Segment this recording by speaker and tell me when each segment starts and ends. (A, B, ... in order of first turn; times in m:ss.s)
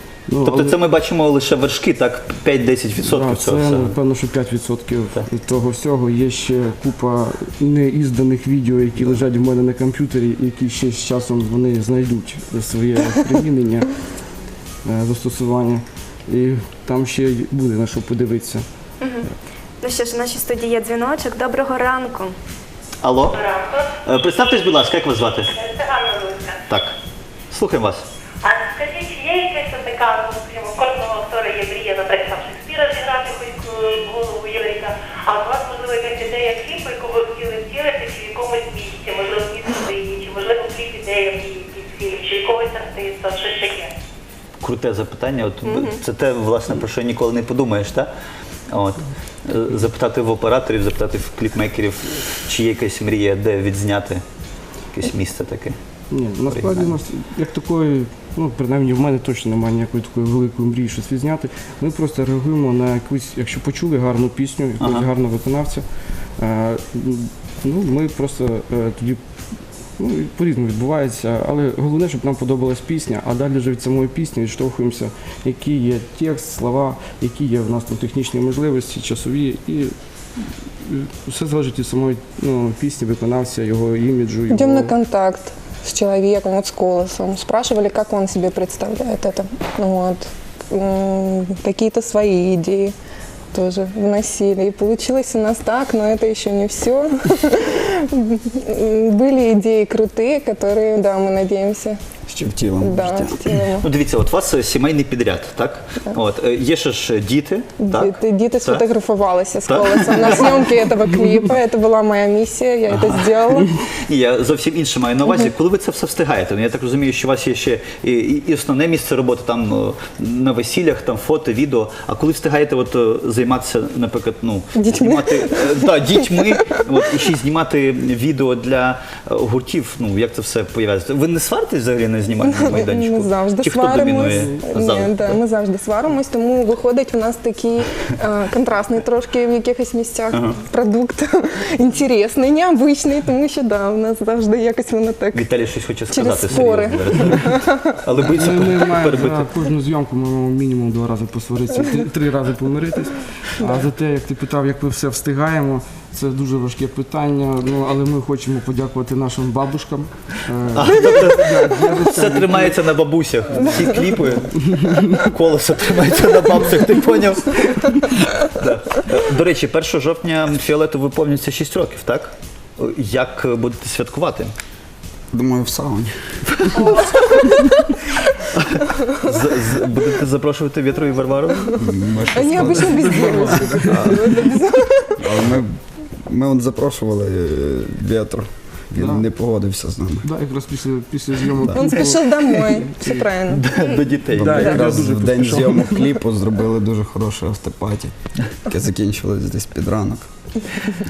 0:00.3-0:00.8 A
0:00.4-0:03.9 B
0:03.0-0:14.0 A
0:14.8-0:18.6 A
0:19.8-0:22.4 C
0:23.0-0:23.4 B
0:23.4-0:23.9 D
0:24.0-0:25.5 B
0:25.5-0:26.6 D
0:26.7-0:27.0 B
0:27.5-0:28.0 B
0:28.4-0:43.9 D
0:44.6-0:48.1 B
0:45.6-0:46.0 C
0:48.7-0:54.2 B
0:54.9-0:55.8 B
0:56.1-1:05.9 A
0:56.5-0:56.9 B
1:04.8-1:05.1 B
1:06.4-1:09.2 A
1:10.0-1:19.9 A
1:20.8-1:24.9 A
1:24.5-1:32.9 E
1:33.5-1:42.0 E
1:42.3-1:43.5 F
1:42.8-1:43.9 E
1:43.8-1:48.8 B
1:47.8-1:53.7 E
1:49.7-1:50.7 B
1:52.9-1:53.4 B
1:54.1-2:15.4 B
2:04.8-2:06.6 E
2:12.4-2:25.4 E
2:20.3-2:20.6 B
2:25.3-2:29.5 B
2:26.1-2:27.9 E
2:28.2-2:42.8 A
2:40.8-2:54.5 B
2:55.3-2:56.1 F
2:56.6-3:01.8 B
3:01.8-3:04.0 F
3:02.3-3:05.2 E
3:02.5-3:04.3 A
3:05.2-3:10.3 F
3:09.0-3:09.2 A
3:10.2-3:13.2 A
3:11.6-3:11.9 F
3:11.7-3:13.6 E
3:13.5-3:15.0 B
3:14.3-3:16.2 A
3:14.3-3:20.2 F